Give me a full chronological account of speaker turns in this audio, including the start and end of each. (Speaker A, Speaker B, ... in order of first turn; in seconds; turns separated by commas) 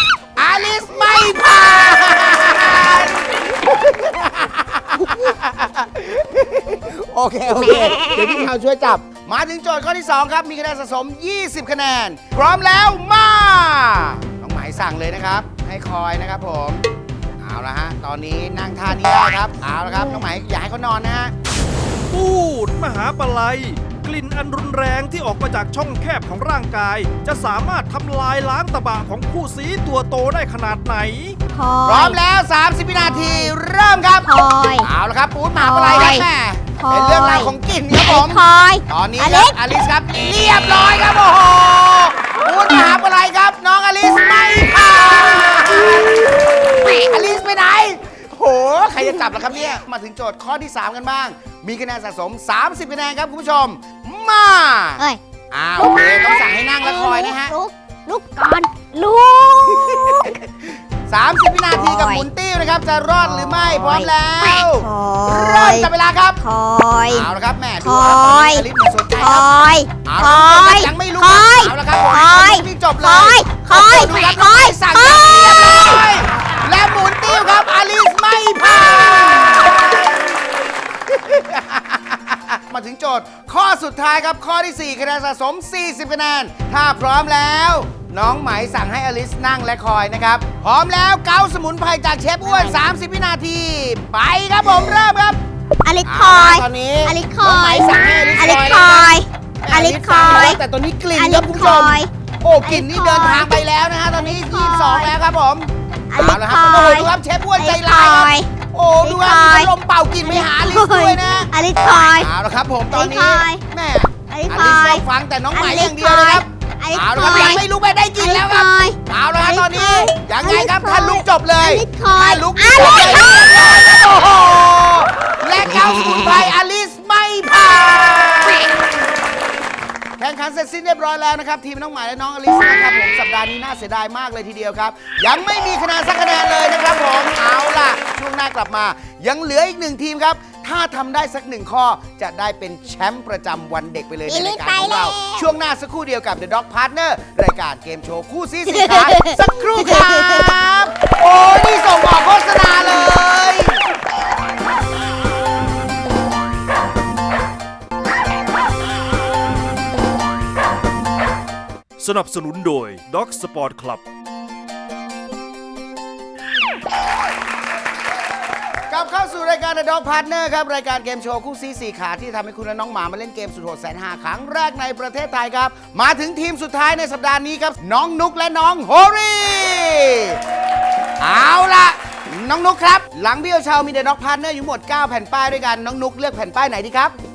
Speaker A: 0.4-16.9, Speaker B: 7.7-8.2, Speaker A: 17.4-21.3, Speaker C: 22.1-31.4, Speaker B: 31.5-32.2, Speaker A: 31.9-34.3, Speaker B: 32.9-33.5, Speaker B: 34.2-34.9, Speaker A: 34.8-57.5, Speaker B: 35.6-36.2, Speaker B: 36.8-37.5, Speaker B: 38.0-39.5, Speaker B: 46.9-47.1, Speaker B: 55.8-60.3, Speaker A: 59.7-66.4, Speaker B: 61.7-62.3, Speaker B: 63.2-67.3, Speaker A: 67.1-80.2, Speaker B: 67.8-68.7, Speaker B: 69.2-76.0, Speaker A: 81.1-95.4, Speaker B: 92.5-92.8, Speaker B: 95.8-100.6, Speaker A: 96.0-111.5, Speaker B: 101.2-102.1, Speaker B: 102.6-103.6, Speaker B: 104.2-105.1, Speaker B: 106.1-108.5, Speaker B: 109.0-109.7, Speaker B: 110.2-112.3, Speaker A: 112.2-128.7, Speaker B: 112.9-113.6, Speaker B: 114.3-117.6, Speaker B: 118.2-123.9, Speaker B: 125.8-126.5, Speaker A: 130.2-153.8, Speaker B: 144.3-145.5, Speaker B: 148.8-149.3, Speaker B: 149.8-150.5, Speaker C: 162.0-164.0, Speaker A: 168.9-180.4, Speaker A: 181.2-187.2